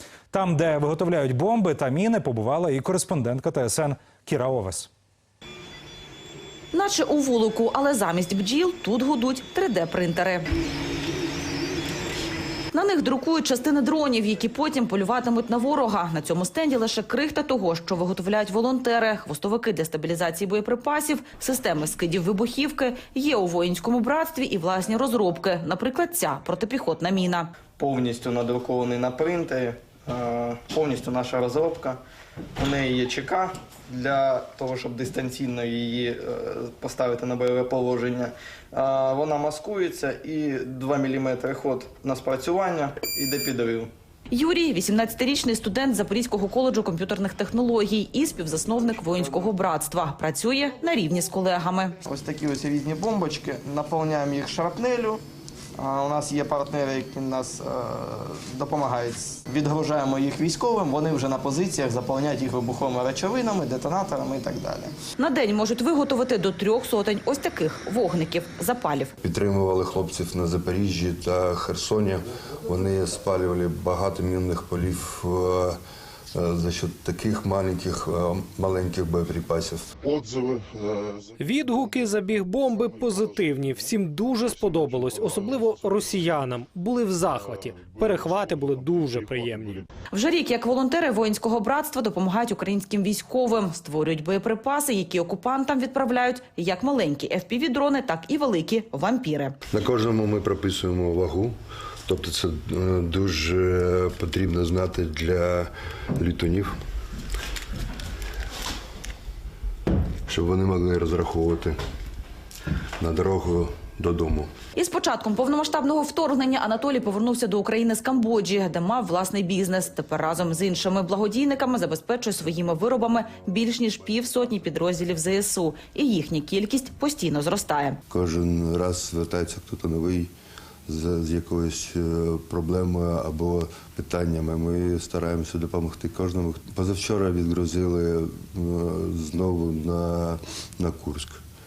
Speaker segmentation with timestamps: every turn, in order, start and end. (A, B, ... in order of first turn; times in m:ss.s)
0:00.3-0:04.9 A
0:06.7-0:10.5 B
0:12.7-0:27.5 B
0:27.8-0:32.0 C
0:32.6-0:43.9 C
0:44.3-0:52.0 B
0:52.0-0:55.2 C
0:55.8-1:04.9 C
1:05.2-1:09.1 B
1:09.2-1:15.8 D
1:16.3-1:19.9 D
1:20.1-1:21.9 E
1:21.4-1:29.8 F
1:22.9-1:23.4 E
1:24.6-1:26.3 E
1:27.5-1:29.6 E
1:30.1-1:39.6 B
1:39.7-1:41.6 D
1:42.1-1:46.8 D
1:50.3-1:51.8 D
1:53.0-1:54.5 D
1:54.8-2:08.0 B
2:08.1-2:10.3 D
2:10.9-2:21.4 D